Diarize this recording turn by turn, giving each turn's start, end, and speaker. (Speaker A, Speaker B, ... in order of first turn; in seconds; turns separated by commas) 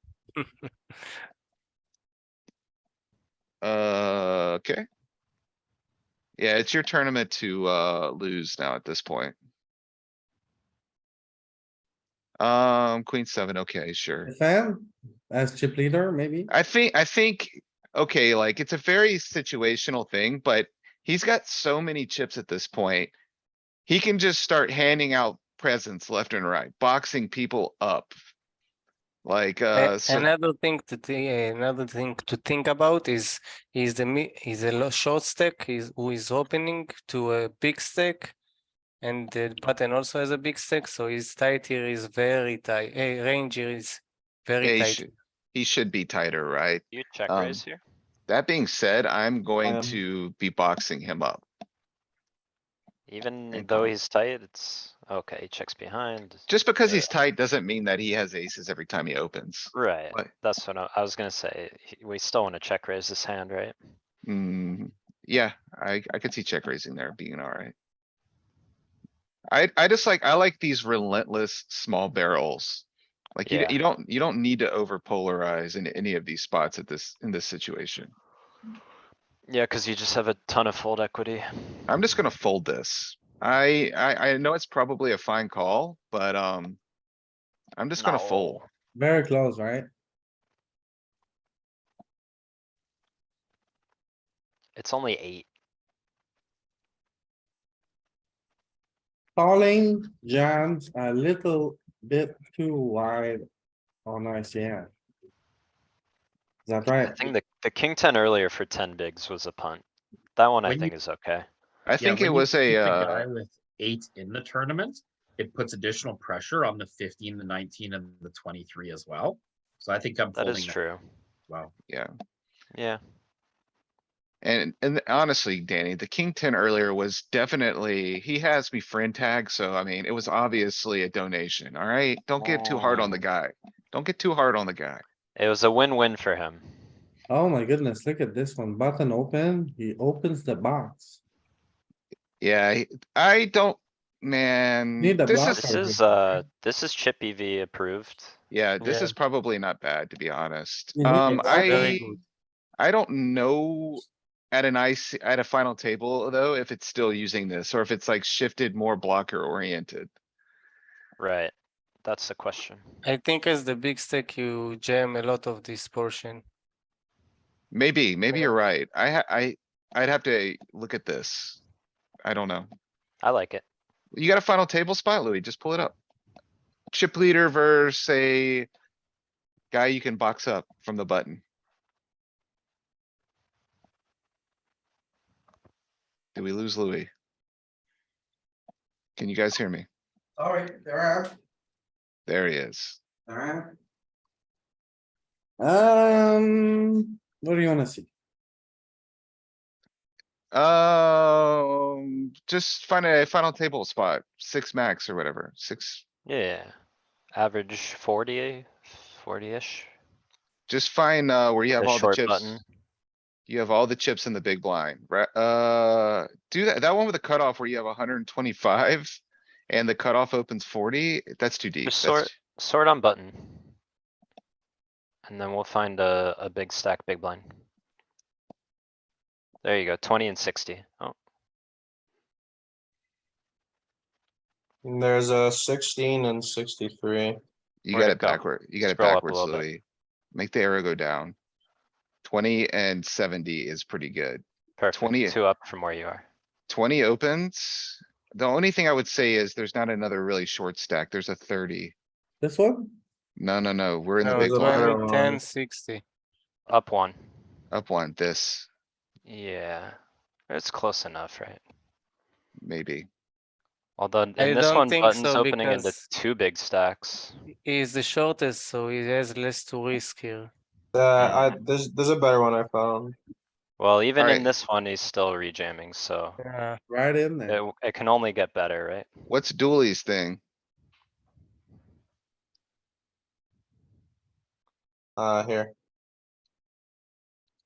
Speaker A: 0.4-0.7, Speaker B: 3.6-4.8, Speaker B: 6.4-9.3, Speaker B: 12.4-14.3, Speaker C: 14.2-16.5, Speaker B: 16.5-23.1, Speaker B: 23.9-28.1, Speaker B: 29.2-30.3, Speaker A: 29.7-38.3, Speaker A: 39.0-45.0, Speaker B: 44.6-47.6, Speaker D: 46.9-47.8, Speaker B: 48.3-51.4, Speaker E: 49.6-50.0, Speaker D: 53.1-57.1, Speaker B: 53.5-53.9, Speaker B: 56.5-60.3, Speaker D: 59.7-63.8, Speaker B: 64.2-67.7, Speaker B: 69.5-78.1, Speaker D: 73.4-73.8, Speaker D: 79.5-81.9, Speaker B: 81.9-86.8, Speaker B: 87.8-88.6, Speaker D: 88.0-88.6, Speaker C: 88.9-89.8, Speaker D: 94.8-95.5, Speaker C: 99.3-103.4, Speaker C: 104.0-104.9, Speaker C: 106.7-107.2, Speaker D: 107.0-109.8, Speaker D: 110.3-111.5, Speaker F: 110.6-110.9, Speaker B: 111.9-113.2, Speaker F: 112.0-120.8, Speaker D: 120.3-121.0, Speaker D: 122.7-123.0, Speaker B: 124.4-135.0, Speaker D: 132.4-133.2, Speaker D: 135.3-136.6, Speaker C: 137.3-141.2, Speaker B: 142.4-145.7, Speaker C: 145.0-146.1, Speaker D: 145.6-148.3, Speaker B: 148.5-152.2, Speaker A: 148.8-149.2, Speaker C: 150.9-152.0, Speaker A: 151.3-152.2, Speaker B: 152.8-160.1, Speaker D: 161.2-161.5, Speaker D: 162.0-162.8, Speaker A: 163.0-166.4, Speaker B: 167.7-171.6, Speaker B: 172.2-172.7, Speaker D: 173.2-173.6, Speaker B: 174.1-175.9, Speaker B: 176.9-178.7, Speaker B: 179.7-181.4, Speaker B: 186.3-187.1, Speaker B: 189.2-189.8, Speaker C: 190.4-191.3, Speaker B: 192.3-193.0, Speaker C: 193.3-193.7, Speaker C: 195.6-198.1, Speaker B: 200.5-206.0, Speaker D: 206.2-206.7, Speaker D: 207.3-209.9, Speaker B: 210.7-212.6, Speaker D: 211.7-212.6, Speaker B: 213.5-222.3, Speaker D: 221.8-223.7, Speaker D: 225.2-227.5, Speaker D: 229.6-231.1, Speaker E: 234.8-237.4, Speaker B: 237.8-239.8, Speaker D: 237.9-239.7, Speaker B: 240.3-241.3, Speaker B: 242.2-244.4, Speaker D: 244.8-246.2, Speaker B: 244.9-245.4, Speaker B: 246.7-251.9, Speaker C: 252.4-252.9, Speaker B: 253.4-255.0, Speaker A: 254.2-256.0, Speaker E: 254.3-255.4, Speaker D: 256.7-257.2, Speaker B: 257.7-258.7, Speaker D: 259.2-260.0, Speaker D: 260.5-261.6, Speaker B: 262.6-263.1, Speaker D: 264.0-267.4, Speaker A: 264.4-266.0, Speaker A: 267.6-270.5, Speaker E: 270.9-273.1, Speaker D: 271.2-271.6, Speaker D: 273.8-276.4, Speaker B: 274.2-274.5, Speaker A: 276.4-276.8, Speaker C: 276.9-277.6, Speaker D: 277.5-279.1, Speaker B: 279.3-280.4, Speaker E: 285.2-285.7